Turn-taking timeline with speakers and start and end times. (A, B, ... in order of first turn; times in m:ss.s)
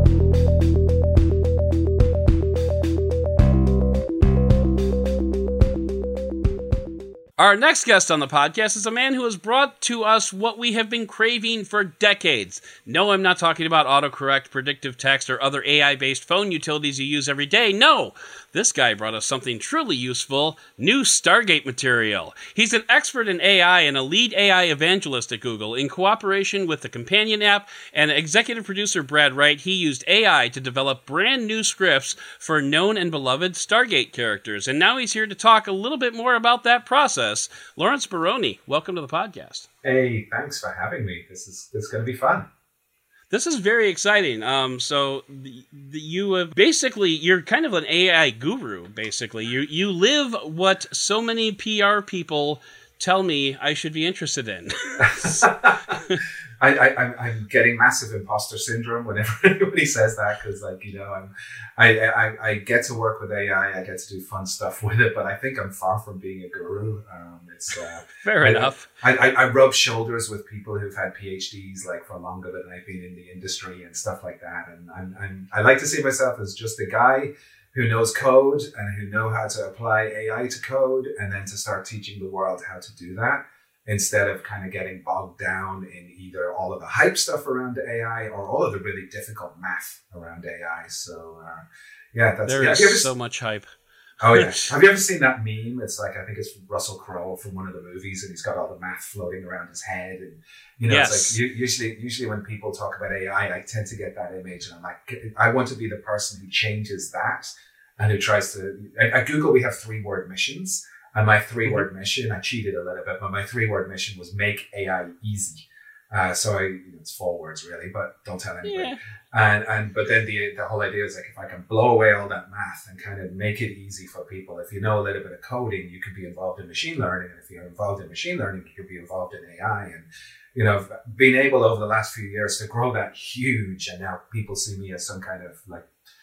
0:07.4-0:39.7 A
0:39.8-0:42.5 B
0:43.3-0:56.2 A
0:55.0-0:56.0 B
0:56.6-1:33.1 B
1:08.2-1:08.9 A
1:32.4-1:33.6 A
1:34.2-2:15.8 B
1:34.3-1:34.7 A
1:40.8-1:41.4 A
1:58.6-1:59.0 A